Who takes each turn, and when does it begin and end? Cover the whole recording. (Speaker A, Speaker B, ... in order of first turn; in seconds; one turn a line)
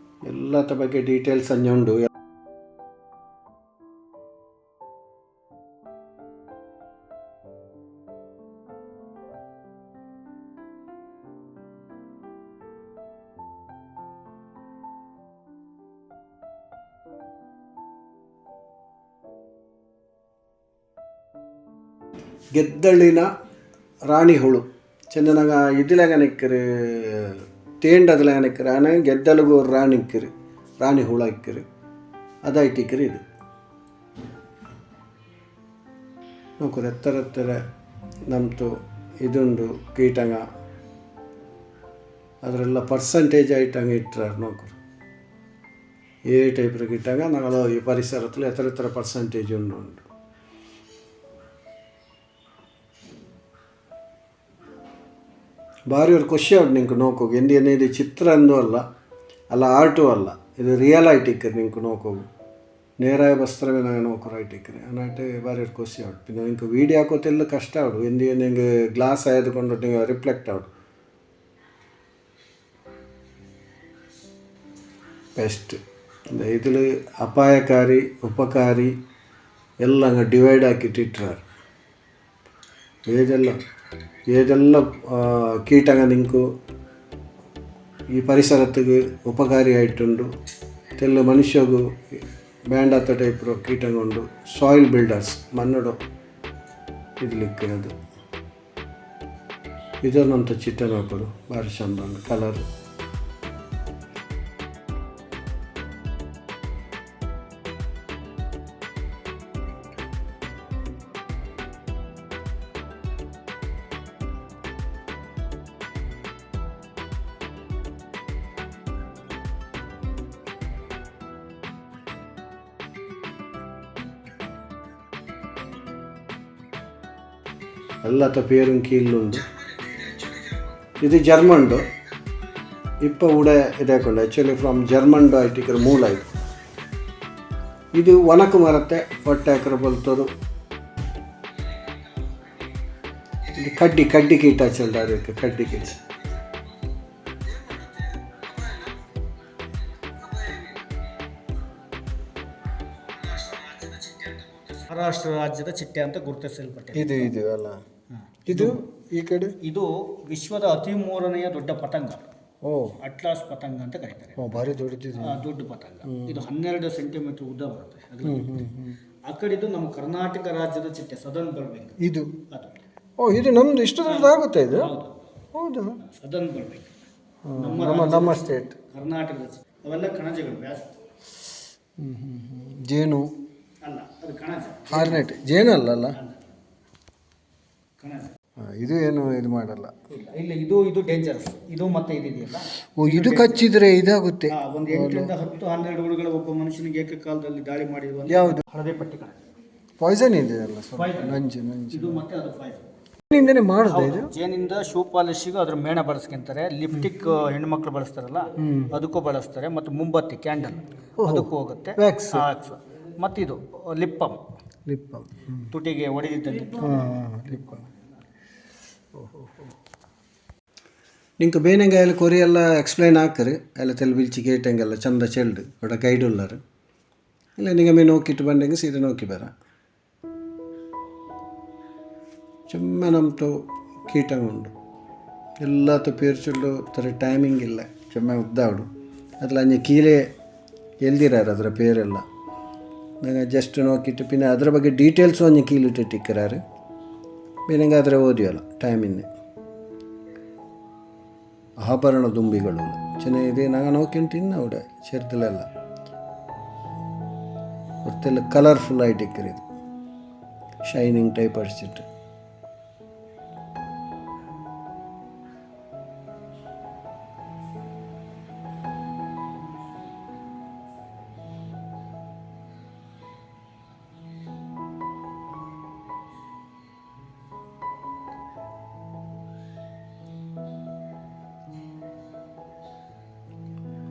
Speaker A: 0.2-2.1
Speaker A: 22.6-23.3
Speaker A: 24.1-31.6
Speaker A: 32.5-33.2
Speaker A: 36.6-37.6
Speaker A: 38.3-40.4
Speaker A: 42.4-44.8
Speaker A: 46.2-50.1
Speaker A: 55.9-58.8
Speaker A: 59.5-62.3
Speaker A: 63.0-70.7
Speaker A: 75.4-75.8
Speaker A: 76.3-79.0
Speaker A: 79.8-81.4
Speaker A: 83.1-83.6
Speaker A: 84.3-86.5
Speaker A: 88.1-90.3
Speaker A: 91.0-96.0
Speaker A: 97.2-97.9
Speaker A: 100.0-102.7
Speaker A: 128.0-129.5
Speaker A: 131.0-131.9
Speaker A: 133.0-136.3
Speaker A: 137.9-140.3
Speaker A: 143.5-146.0
Speaker B: 153.1-157.3
Speaker A: 156.9-157.8
Speaker B: 158.3-158.8
Speaker A: 158.5-159.6
Speaker B: 159.6-162.3
Speaker A: 162.6-163.0
Speaker B: 163.0-164.5
Speaker A: 164.4-165.4
Speaker B: 165.2-168.5
Speaker A: 166.1-166.4
Speaker A: 168.2-169.0
Speaker B: 169.3-172.8
Speaker A: 172.0-172.4
Speaker A: 173.2-174.9
Speaker B: 174.0-175.3
Speaker A: 175.5-176.0
Speaker B: 176.0-177.0
Speaker A: 177.4-178.8
Speaker B: 177.6-180.9
Speaker A: 182.0-183.3
Speaker B: 183.8-185.4
Speaker A: 184.9-186.2
Speaker B: 186.2-186.5
Speaker B: 188.0-188.3
Speaker A: 188.6-189.9
Speaker B: 190.1-193.7
Speaker A: 193.0-195.3
Speaker B: 194.5-199.4
Speaker A: 198.3-198.6
Speaker A: 200.0-202.2
Speaker B: 200.9-201.4
Speaker B: 201.9-202.8
Speaker A: 203.3-204.3
Speaker B: 203.8-214.4
Speaker A: 208.6-208.9
Speaker A: 211.2-212.5
Speaker A: 214.9-215.7
Speaker B: 215.7-217.0
Speaker A: 216.8-217.9
Speaker A: 219.2-219.7
Speaker A: 221.4-226.6
Speaker A: 227.6-229.5
Speaker A: 232.7-234.7
Speaker A: 235.6-238.9
Speaker A: 239.4-240.3
Speaker A: 241.0-242.2
Speaker A: 243.2-246.6
Speaker A: 247.7-249.3
Speaker A: 251.8-255.7
Speaker A: 258.1-259.6
Speaker A: 260.8-262.1